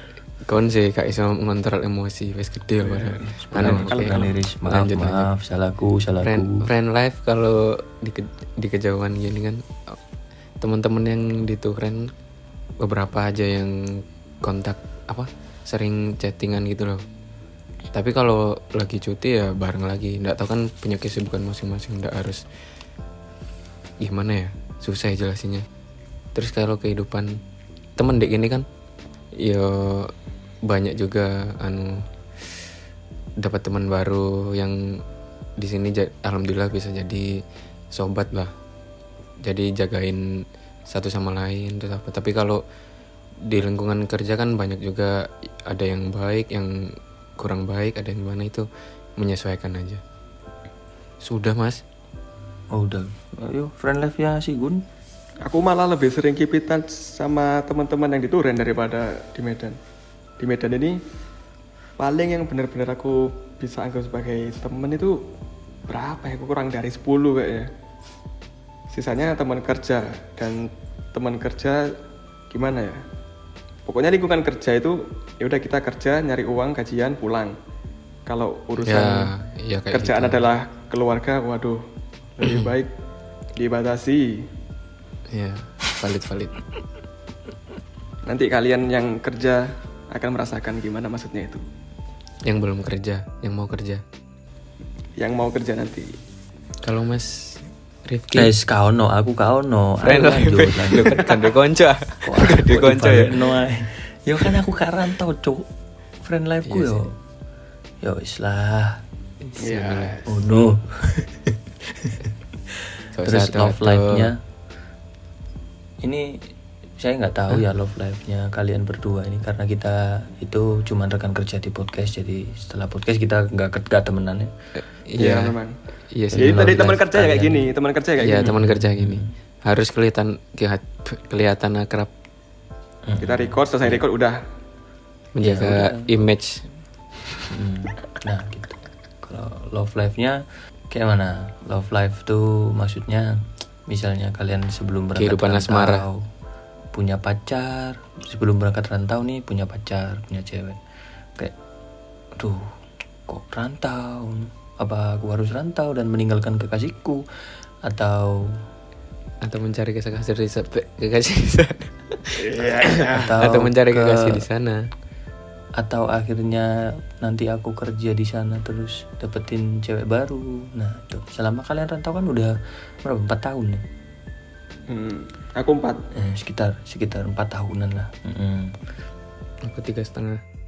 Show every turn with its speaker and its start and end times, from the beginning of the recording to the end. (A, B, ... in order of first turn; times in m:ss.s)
0:00.5-0:05.3 A
0:02.9-0:04.3 B
0:03.2-0:06.7 C
0:06.2-0:10.0 A
0:10.6-0:12.1 A
0:12.8-0:17.0 A
0:17.9-0:22.4 A
0:24.0-0:25.7 A
0:26.4-0:27.4 A
0:28.0-0:28.6 A
0:29.4-0:30.1 A
0:30.7-0:32.0 A
0:33.4-0:35.0 A
0:35.6-0:37.4 A
0:37.9-0:38.5 A
0:39.4-0:42.6 A
0:43.5-0:46.7 A
0:47.4-0:48.7 A
0:49.2-0:50.0 A
0:51.2-0:51.8 A
0:52.7-0:54.8 C
0:55.4-0:59.8 B
1:00.4-1:01.0 B
1:02.0-1:05.2 B
1:05.9-1:07.7 B
1:08.9-1:12.0 B
1:12.5-1:13.0 B
1:13.9-1:17.6 B
1:18.2-1:19.3 B
1:18.8-1:20.4 A
1:19.9-1:21.8 B
1:22.4-1:22.9 B
1:22.4-1:22.7 A
1:23.6-1:24.4 B
1:25.3-1:26.6 A
1:28.2-1:31.6 B
1:32.5-1:34.0 A
1:35.2-1:36.1 B
1:36.8-1:38.5 A
1:38.4-1:41.2 C
1:40.0-1:43.4 A
1:42.2-1:45.7 C
1:46.2-1:47.2 C
1:46.6-1:47.0 A
1:48.0-1:49.0 C
1:49.4-1:50.1 A
1:49.6-1:50.5 B
1:50.2-1:52.2 C
1:52.7-1:54.4 C
1:53.1-1:54.3 A
1:56.0-1:56.5 C
1:57.0-2:04.5 C
2:04.8-2:05.5 A
2:05.2-2:05.8 B
2:06.1-2:07.0 A
2:06.3-2:07.7 C
2:06.4-2:08.5 B
2:08.2-2:12.1 A
2:08.4-2:09.3 C
2:13.1-2:14.0 C
2:13.2-2:14.4 B
2:15.4-2:16.6 A
2:15.4-2:16.3 C
2:17.5-2:26.3 C
2:25.2-2:26.1 A
2:26.9-2:30.8 C
2:32.4-2:32.7 C
2:33.3-2:37.2 C
2:37.8-2:38.6 C
2:39.4-2:44.8 A
2:42.4-2:43.3 B
2:43.2-2:44.5 C
2:45.8-2:53.8 C
2:54.9-2:56.0 B
2:56.1-2:58.8 C
2:59.6-3:00.4 A